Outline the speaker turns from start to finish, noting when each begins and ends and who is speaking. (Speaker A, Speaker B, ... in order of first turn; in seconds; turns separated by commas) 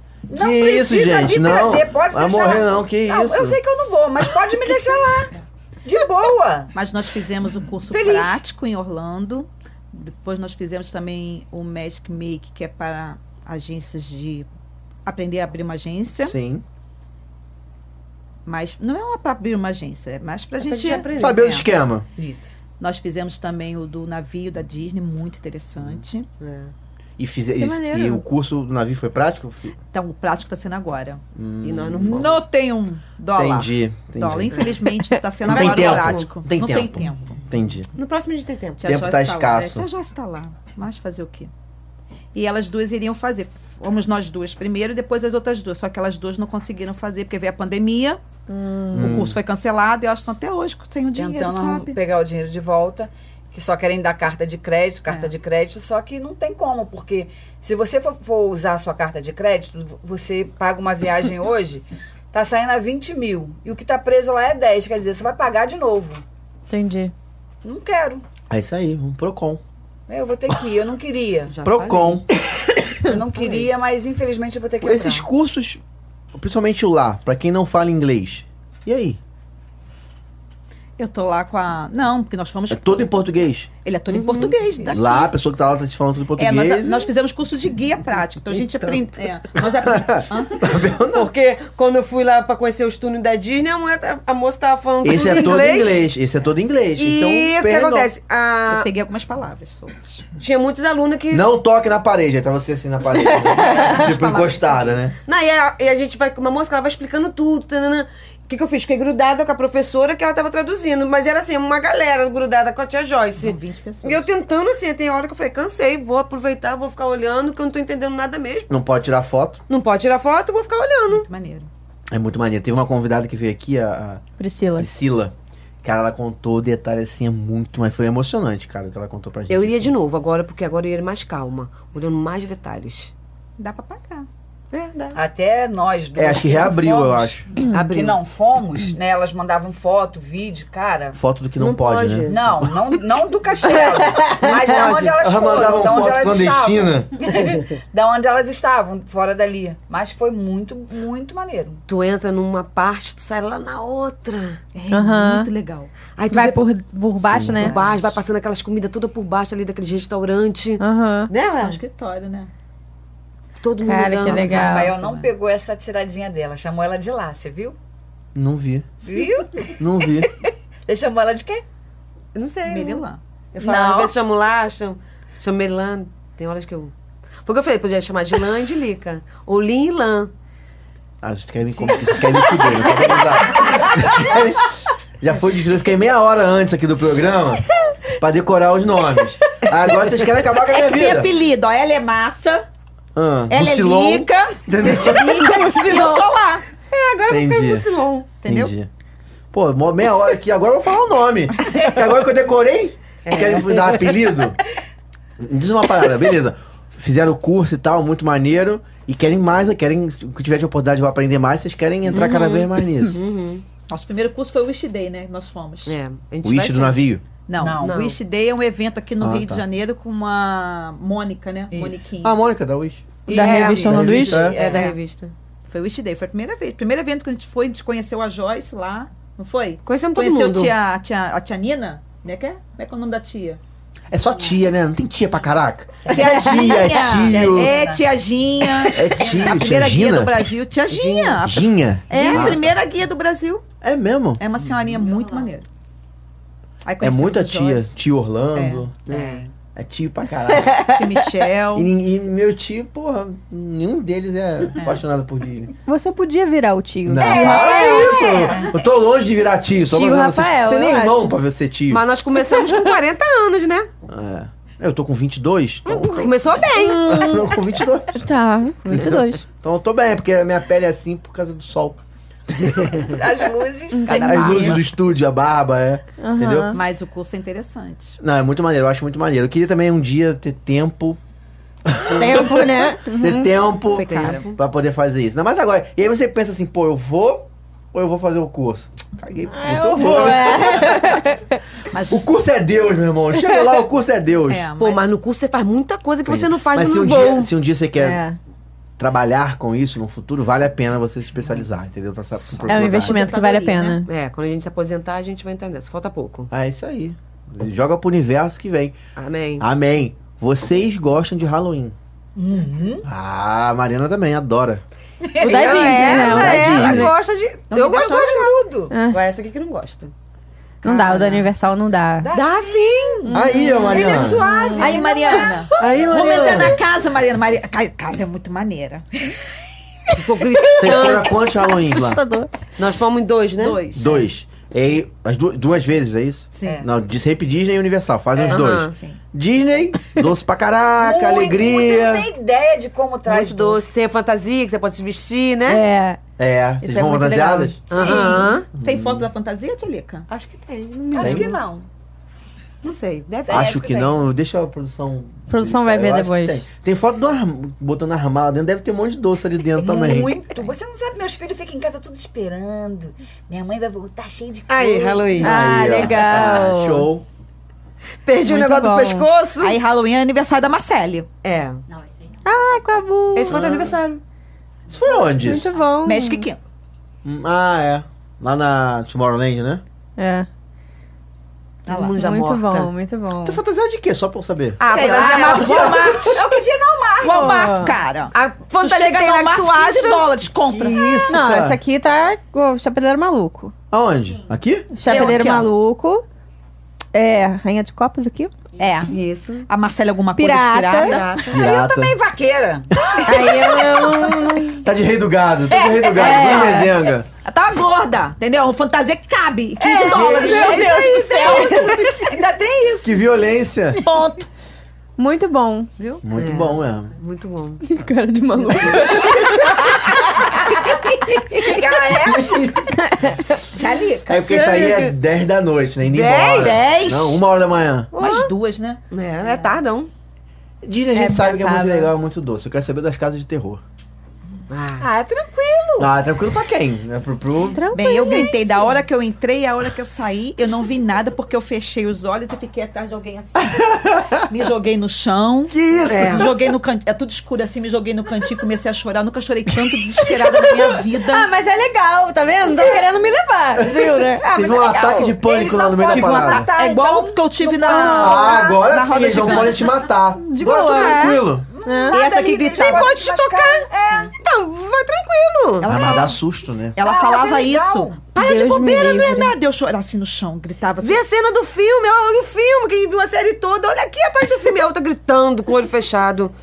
Speaker A: 0.3-6.7, Speaker B: 0.3-3.6, Speaker C: 6.7-14.5, Speaker A: 7.9-8.4, Speaker C: 15.1-16.4, Speaker B: 16.2-16.6, Speaker C: 18.5-21.6, Speaker D: 20.6-21.6, Speaker B: 21.2-22.1, Speaker A: 22.2-22.6, Speaker C: 22.8-26.3, Speaker D: 26.4-26.7, Speaker B: 27.2-29.8, Speaker E: 27.6-28.2, Speaker C: 29.9-31.2, Speaker B: 31.4-32.3, Speaker D: 31.6-32.4, Speaker C: 32.0-37.4, Speaker B: 33.3-34.8, Speaker D: 35.4-36.3, Speaker B: 35.4-37.9, Speaker D: 38.0-38.8, Speaker C: 38.8-41.5, Speaker B: 38.8-39.9, Speaker C: 42.3-48.2, Speaker E: 48.5-49.2, Speaker B: 48.9-49.4, Speaker C: 49.0-52.0, Speaker A: 51.1-66.2, Speaker E: 66.7-67.1, Speaker A: 67.6-68.2, Speaker B: 68.5-69.6, Speaker A: 70.1-71.6, Speaker D: 71.5-72.2, Speaker B: 71.6-72.3, Speaker A: 73.0-75.3, Speaker B: 74.8-75.8, Speaker B: 76.3-79.2, Speaker C: 81.0-83.1, Speaker B: 82.7-83.7, Speaker C: 83.8-85.3, Speaker D: 84.1-84.6, Speaker B: 84.9-87.1, Speaker C: 86.4-90.6, Speaker B: 89.6-91.3, Speaker D: 91.1-96.0, Speaker B: 95.0-98.1, Speaker D: 97.0-98.9, Speaker C: 98.7-100.3, Speaker D: 100.4-101.5, Speaker B: 101.3-105.2, Speaker C: 103.2-104.9, Speaker D: 105.3-118.7, Speaker C: 113.4-114.3, Speaker B: 118.7-119.6, Speaker D: 119.7-121.3, Speaker C: 121.1-121.7, Speaker B: 122.1-124.2, Speaker E: 124.4-124.9, Speaker B: 124.8-129.9, Speaker D: 129.5-133.1, Speaker C: 133.6-134.3, Speaker D: 134.7-135.2, Speaker A: 135.1-141.2, Speaker B: 136.2-137.4, Speaker D: 137.7-138.2, Speaker B: 141.2-142.8, Speaker D: 141.6-142.4, Speaker A: 142.3-151.8, Speaker D: 144.4-145.2, Speaker B: 145.2-147.1, Speaker D: 151.9-154.6, Speaker C: 154.7-156.0, Speaker E: 154.9-155.5, Speaker D: 156.2-156.7, Speaker E: 156.3-157.7, Speaker B: 157.2-157.7, Speaker D: 157.6-161.8, Speaker E: 160.8-161.3, Speaker C: 161.6-162.5, Speaker D: 163.6-164.8, Speaker E: 163.8-165.0, Speaker C: 164.2-165.3, Speaker A: 164.5-167.8, Speaker B: 168.3-168.9, Speaker A: 169.0-169.8, Speaker B: 169.8-170.3, Speaker A: 170.9-171.6, Speaker D: 172.3-176.9, Speaker C: 172.7-173.2, Speaker D: 177.4-180.3, Speaker B: 181.2-187.6, Speaker C: 181.7-183.8, Speaker B: 188.2-191.3, Speaker C: 190.7-192.7, Speaker B: 193.2-195.7, Speaker C: 193.5-196.7, Speaker E: 195.5-196.3, Speaker D: 196.9-198.3, Speaker B: 197.3-197.9, Speaker C: 198.4-198.7, Speaker B: 198.4-198.9, Speaker B: 199.5-204.6, Speaker D: 203.2-204.3, Speaker B: 205.4-213.2, Speaker D: 212.1-213.7, Speaker C: 213.9-216.0, Speaker D: 215.9-217.0, Speaker B: 216.4-217.2, Speaker C: 217.5-222.4, Speaker A: 217.6-218.0, Speaker D: 217.8-218.2, Speaker B: 219.2-219.7, Speaker A: 221.7-222.1, Speaker B: 222.2-224.6, Speaker C: 223.3-225.0, Speaker E: 223.3-224.4, Speaker D: 223.3-225.3, Speaker A: 224.3-224.9, Speaker C: 225.7-233.6, Speaker D: 229.9-230.7, Speaker B: 234.1-237.8, Speaker C: 236.1-243.6, Speaker A: 237.1-238.1, Speaker B: 238.9-240.5, Speaker A: 239.1-239.7, Speaker D: 240.9-241.4, Speaker B: 241.4-242.8, Speaker D: 242.1-242.6, Speaker B: 243.8-244.4, Speaker C: 244.4-245.7, Speaker C: 246.8-247.9, Speaker B: 247.0-248.9, Speaker C: 248.6-249.2, Speaker D: 249.1-249.4, Speaker A: 249.1-249.5, Speaker B: 249.8-250.8, Speaker C: 250.8-251.9, Speaker B: 251.7-255.7, Speaker C: 254.8-255.0, Speaker E: 255.9-258.3, Speaker B: 257.1-262.0, Speaker A: 257.2-258.8, Speaker C: 257.3-258.2, Speaker E: 259.9-261.3, Speaker D: 261.9-263.9, Speaker B: 264.1-266.3, Speaker E: 265.9-267.6, Speaker D: 266.0-267.2, Speaker B: 267.0-268.3, Speaker E: 268.1-269.4, Speaker B: 268.9-272.0, Speaker D: 268.9-269.2, Speaker B: 272.5-273.0, Speaker A: 273.0-274.8, Speaker E: 273.9-274.8, Speaker C: 274.1-274.8, Speaker B: 274.1-276.8, Speaker E: 276.2-276.8, Speaker C: 276.7-278.2, Speaker B: 278.2-281.2, Speaker B: 281.9-291.2, Speaker E: 282.0-283.5, Speaker C: 283.9-284.6, Speaker D: 284.1-284.5, Speaker E: 289.5-291.4, Speaker C: 291.9-292.3, Speaker B: 292.1-294.7, Speaker C: 294.5-295.1, Speaker D: 294.8-297.5, Speaker B: 296.3-298.2, Speaker E: 298.0-298.4, Speaker B: 299.0-303.3, Speaker C: 302.4-304.0, Speaker E: 302.6-304.1, Speaker D: 304.1-306.5, Speaker B: 306.5-309.0, Speaker D: 309.2-309.6, Speaker B: 309.6-312.0, Speaker A: 312.4-313.1, Speaker B: 313.1-314.8, Speaker A: 315.3-315.6, Speaker D: 315.3-320.1, Speaker E: 315.4-317.1, Speaker C: 315.7-316.1, Speaker B: 315.9-317.1, Speaker C: 317.7-318.5, Speaker A: 318.1-318.9, Speaker E: 318.9-319.2, Speaker E: 320.8-322.3, Speaker C: 320.8-321.4, Speaker D: 320.9-321.4, Speaker A: 322.2-323.3, Speaker C: 322.3-323.4, Speaker E: 323.3-325.5, Speaker B: 323.3-324.4, Speaker A: 323.9-325.7, Speaker C: 324.8-329.4, Speaker B: 325.8-326.8, Speaker D: 330.1-331.3, Speaker B: 330.8-332.2, Speaker E: 331.5-332.5, Speaker D: 332.8-334.2, Speaker C: 333.6-334.3, Speaker B: 333.9-342.3, Speaker C: 336.6-336.9, Speaker A: 336.6-336.9, Speaker C: 338.4-339.2, Speaker D: 338.5-338.9, Speaker A: 341.0-344.0, Speaker D: 343.3-345.8, Speaker E: 345.7-346.2, Speaker B: 346.4-347.9, Speaker E: 346.8-347.8, Speaker D: 347.9-348.7, Speaker C: 347.9-350.3, Speaker A: 348.0-348.4, Speaker B: 348.8-349.3, Speaker D: 350.3-351.6, Speaker A: 351.1-351.9, Speaker B: 351.2-351.5, Speaker D: 352.8-353.8, Speaker A: 353.4-354.2, Speaker B: 353.5-360.4, Speaker E: 355.5-356.6, Speaker A: 359.8-365.5, Speaker D: 364.7-365.6, Speaker B: 365.4-367.2, Speaker E: 365.4-367.1, Speaker D: 368.2-369.8, Speaker E: 368.4-369.3, Speaker C: 369.6-371.3, Speaker D: 371.4-371.8, Speaker E: 372.4-373.6, Speaker D: 373.4-374.2, Speaker B: 373.5-373.9, Speaker B: 374.9-375.7, Speaker E: 375.2-376.5, Speaker C: 376.0-376.6, Speaker B: 377.2-379.8, Speaker E: 380.2-380.5, Speaker C: 381.9-382.1, Speaker D: 381.9-382.9, Speaker E: 382.2-383.6, Speaker B: 383.4-384.8, Speaker D: 384.8-386.4, Speaker C: 384.8-386.6, Speaker A: 384.9-387.7, Speaker C: 387.2-391.3, Speaker E: 387.2-388.0, Speaker D: 388.3-390.3, Speaker B: 390.6-391.8, Speaker E: 391.3-393.7, Speaker B: 393.9-394.9, Speaker E: 394.9-396.2, Speaker C: 395.0-395.7, Speaker D: 395.1-395.4, Speaker E: 397.1-398.5, Speaker C: 398.8-401.5, Speaker D: 399.1-399.7, Speaker E: 400.4-401.2, Speaker D: 401.0-401.6, Speaker B: 401.5-402.1, Speaker A: 401.5-403.6, Speaker E: 403.2-404.9, Speaker B: 404.8-407.3, Speaker A: 405.7-406.4, Speaker C: 406.0-406.9, Speaker E: 406.1-406.9, Speaker C: 407.4-412.2, Speaker A: 409.8-413.2, Speaker B: 410.1-410.8, Speaker E: 410.2-412.2, Speaker B: 413.0-414.0, Speaker C: 414.0-414.5, Speaker E: 415.2-415.9, Speaker C: 416.0-416.2, Speaker B: 416.2-417.1, Speaker D: 416.4-417.8, Speaker E: 417.8-420.5, Speaker C: 418.8-419.3, Speaker A: 421.3-422.7, Speaker B: 422.1-423.1, Speaker E: 423.0-423.6, Speaker C: 423.7-424.4, Speaker B: 424.3-428.1, Speaker D: 424.3-425.1, Speaker D: 426.0-427.1, Speaker C: 426.6-427.4, Speaker C: 428.1-429.0, Speaker D: 428.2-428.5, Speaker D: 429.1-430.1, Speaker B: 430.8-433.8, Speaker E: 431.1-432.1, Speaker D: 434.7-435.1, Speaker A: 435.0-436.1, Speaker B: 436.0-437.9, Speaker E: 437.7-438.9, Speaker C: 437.9-451.5, Speaker B: 443.6-444.4, Speaker B: 445.7-446.6, Speaker D: 446.1-446.5, Speaker E: 450.5-454.4, Speaker A: 452.7-453.0, Speaker B: 453.8-456.7, Speaker A: 454.4-458.9, Speaker C: 456.1-460.0, Speaker E: 457.9-458.4, Speaker B: 458.0-461.7, Speaker D: 459.3-459.7, Speaker E: 460.4-462.2, Speaker D: 460.7-461.4, Speaker A: 461.7-464.3, Speaker C: 462.1-463.4, Speaker D: 462.9-465.9, Speaker C: 465.8-466.4, Speaker B: 465.8-467.0, Speaker C: 466.9-471.2, Speaker A: 467.0-468.2, Speaker E: 468.4-469.5, Speaker D: 471.0-476.5